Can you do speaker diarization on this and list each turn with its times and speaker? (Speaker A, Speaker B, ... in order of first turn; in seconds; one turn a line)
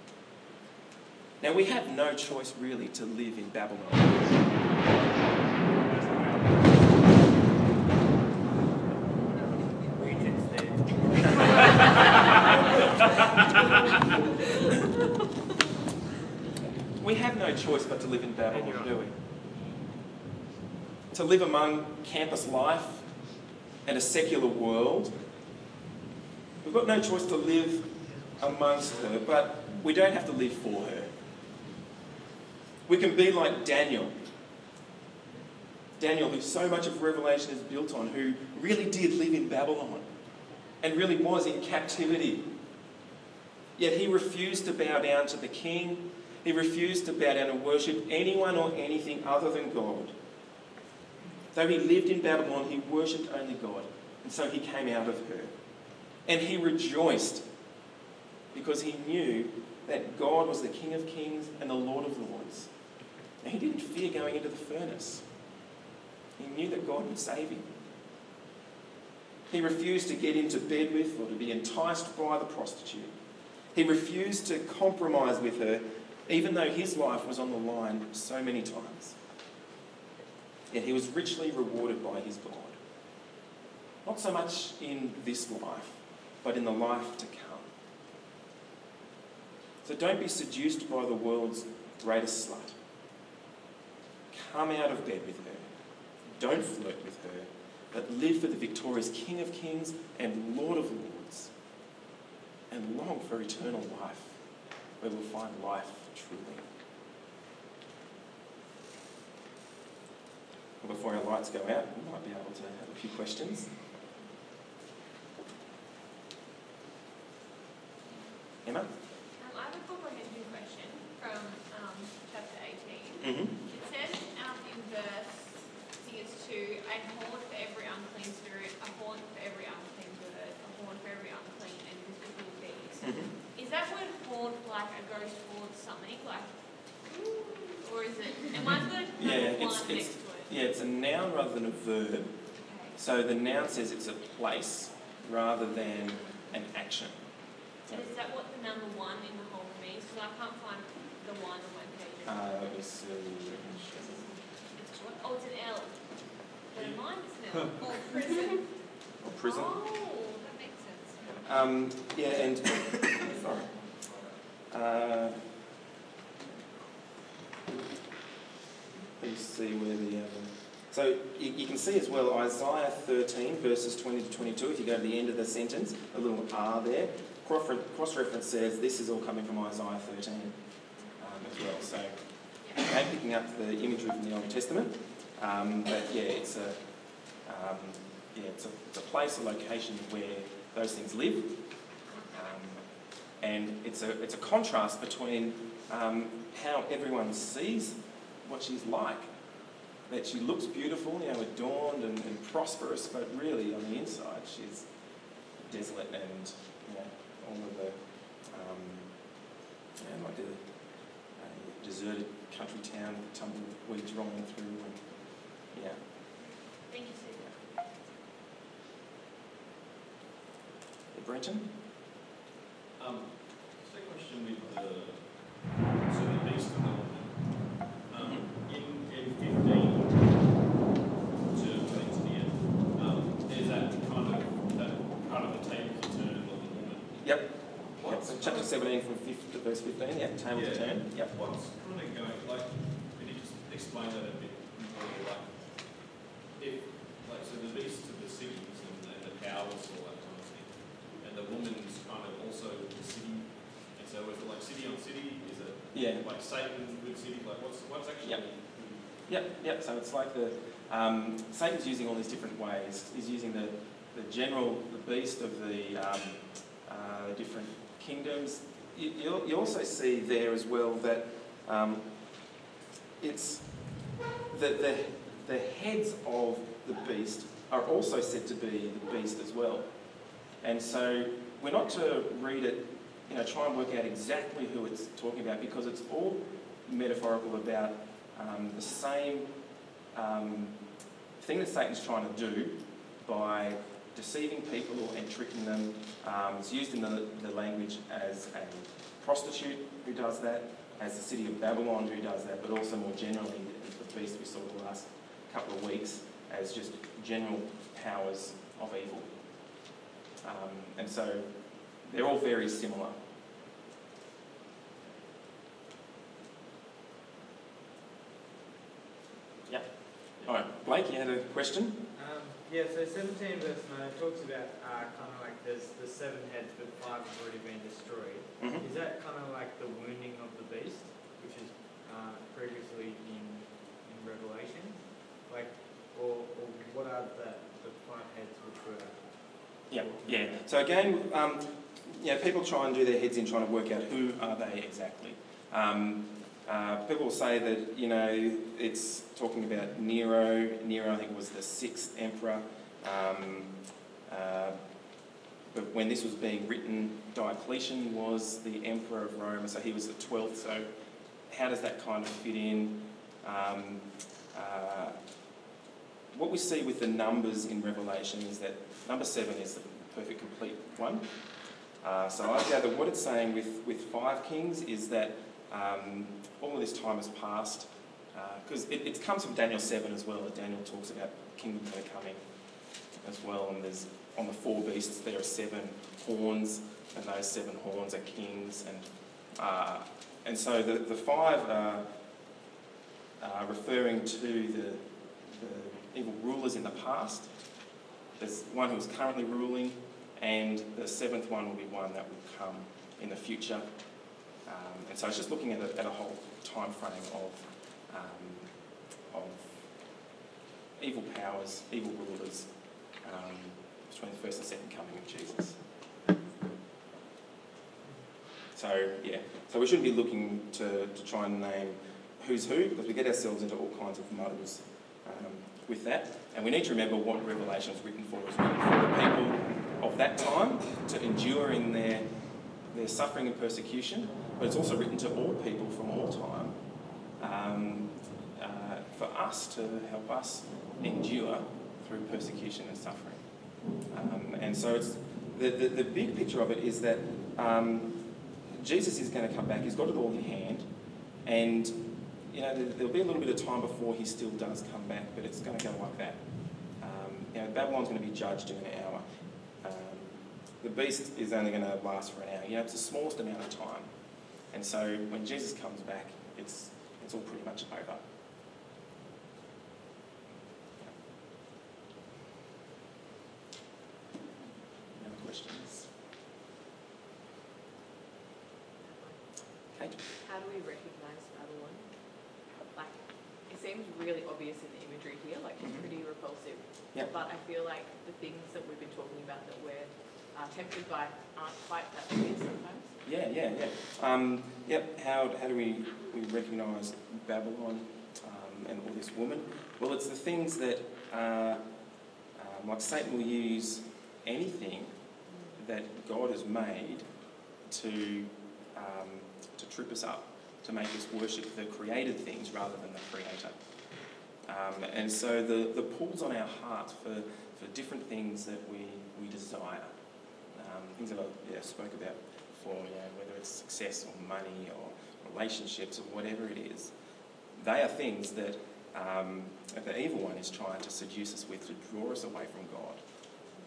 Speaker A: 1.4-5.0
Speaker A: 5.6-6.7
Speaker B: 9.8-11.7
Speaker A: 17.0-19.1
Speaker A: 21.1-23.0
Speaker A: 23.9-25.1
Speaker A: 26.6-31.1
Speaker A: 32.9-34.1
Speaker A: 36.0-40.1
Speaker A: 40.8-42.4
Speaker A: 43.8-50.1
Speaker A: 51.5-55.5
Speaker A: 56.3-57.4
Speaker A: 58.5-62.7
Speaker A: 63.4-65.2
Speaker A: 66.4-67.7
Speaker A: 69.5-73.1
Speaker A: 73.7-79.2
Speaker A: 80.7-82.8
Speaker A: 84.0-87.7
Speaker A: 89.8-92.8
Speaker A: 94.3-95.7
Speaker A: 96.3-101.5
Speaker A: 102.7-104.4
Speaker A: 105.0-106.7
Speaker A: 110.8-113.7
Speaker A: 118.7-118.9
Speaker C: 119.4-140.5
Speaker A: 123.2-123.5
Speaker A: 133.0-133.3
Speaker A: 139.2-142.3
Speaker C: 142.7-142.9
Speaker A: 142.9-147.2
Speaker C: 147.9-152.5
Speaker A: 152.3-154.2
Speaker C: 153.8-156.1
Speaker C: 156.7-158.7
Speaker A: 159.2-159.8
Speaker C: 159.4-161.4
Speaker A: 161.4-163.7
Speaker A: 164.7-165.4
Speaker A: 169.2-180.6
Speaker A: 181.2-182.2
Speaker A: 182.7-186.8
Speaker A: 187.4-191.5
Speaker A: 192.3-192.8
Speaker A: 193.4-199.3
Speaker A: 200.1-204.9
Speaker A: 205.6-209.1
Speaker A: 210.0-210.6
Speaker A: 211.4-215.0
Speaker A: 215.7-216.0
Speaker C: 216.8-217.7
Speaker A: 221.1-221.7
Speaker D: 223.0-230.7
Speaker A: 228.2-228.5
Speaker D: 231.5-237.2
Speaker A: 237.2-241.3
Speaker D: 238.0-238.7
Speaker D: 240.5-259.2
Speaker A: 255.9-256.2
Speaker A: 259.0-272.1
Speaker A: 273.2-274.0
Speaker A: 274.5-279.9
Speaker A: 280.6-289.5
Speaker A: 290.1-290.8
Speaker A: 291.4-309.3
Speaker A: 310.4-311.5
Speaker A: 312.0-313.2
Speaker A: 319.7-322.0
Speaker B: 322.1-340.6
Speaker A: 328.6-328.9
Speaker A: 339.9-353.7
Speaker A: 354.3-354.8
Speaker A: 355.7-360.9
Speaker A: 361.5-365.1
Speaker A: 366.3-371.3
Speaker A: 372.0-382.4
Speaker A: 383.2-392.1
Speaker A: 393.4-397.5
Speaker A: 398.4-403.9
Speaker A: 404.6-408.7
Speaker A: 409.3-409.8
Speaker A: 411.0-412.7
Speaker A: 413.2-415.8
Speaker A: 418.8-432.3
Speaker A: 432.9-436.8
Speaker A: 437.4-443.4
Speaker A: 444.1-450.9
Speaker A: 451.4-456.4
Speaker A: 457.0-459.2
Speaker A: 459.8-464.1
Speaker A: 464.7-468.2
Speaker A: 475.1-476.1
Speaker E: 479.0-479.4
Speaker A: 479.9-480.2
Speaker E: 480.4-482.1
Speaker E: 482.9-493.1
Speaker A: 485.8-486.1
Speaker A: 493.2-501.8
Speaker A: 502.6-505.1
Speaker A: 505.8-507.3
Speaker A: 507.9-513.9
Speaker A: 514.6-520.1
Speaker A: 520.7-527.1
Speaker A: 527.8-533.2